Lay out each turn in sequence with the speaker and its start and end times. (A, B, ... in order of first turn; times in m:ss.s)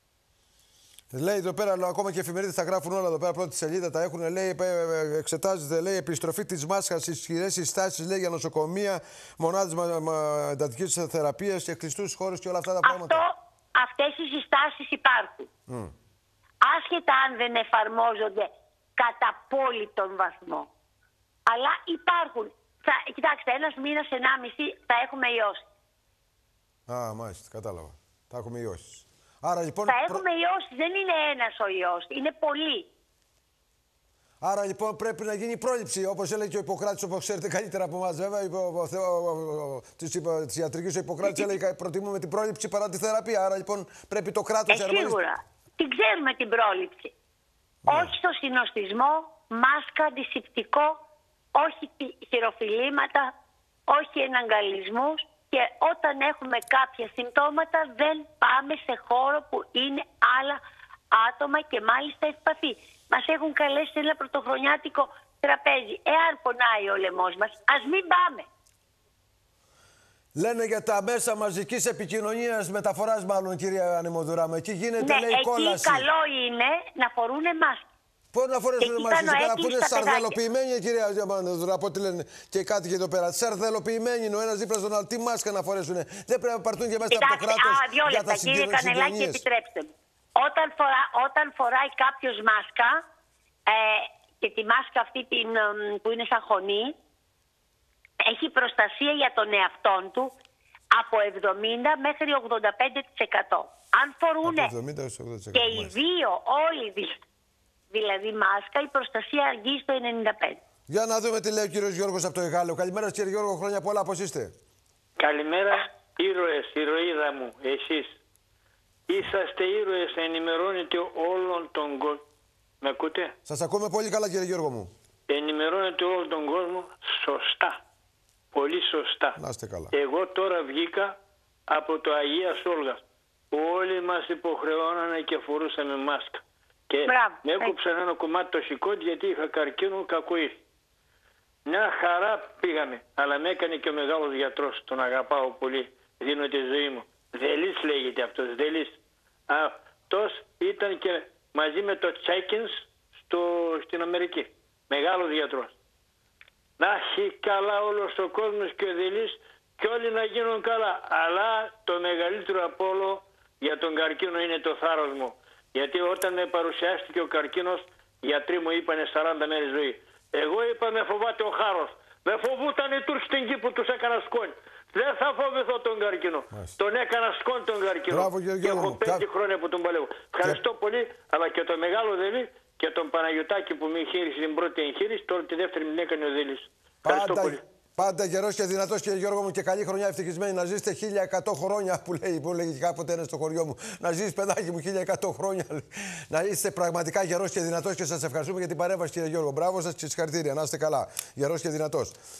0:01.1-0:13.2 A
0:12.8-0:15.5 B
0:15.7-0:15.9 A
0:16.6-0:20.7 B
0:21.5-0:25.6 B
0:26.9-0:30.2 A
0:29.9-0:32.9 B
0:34.4-0:45.2 A
0:44.7-0:47.1 B
0:47.8-0:48.1 A
0:47.9-0:51.0 B
0:51.5-0:53.3 B
0:53.9-1:00.6 B
1:01.1-1:08.4 B
1:10.4-1:16.1 A
1:15.0-1:17.8 B
1:18.3-1:29.4 A
1:18.8-1:20.4 B
1:27.1-1:33.0 B
1:33.7-1:36.9 B
1:38.2-1:40.3 B
1:40.9-1:44.7 B
1:44.4-1:45.9 A
1:45.5-1:47.2 B
1:47.9-1:50.6 B
1:50.9-1:54.5 A
1:55.2-1:58.2 C
1:59.1-2:02.2 C
2:02.8-2:03.3 C
2:03.4-2:04.9 A
2:05.3-2:07.8 C
2:08.5-2:09.4 C
2:09.4-2:09.9 A
2:09.9-2:11.2 C
2:11.7-2:20.6 C
2:17.0-2:17.7 B
2:21.6-2:35.7 C
2:36.8-3:07.6 C
2:58.1-2:59.2 A
3:07.0-3:22.2 A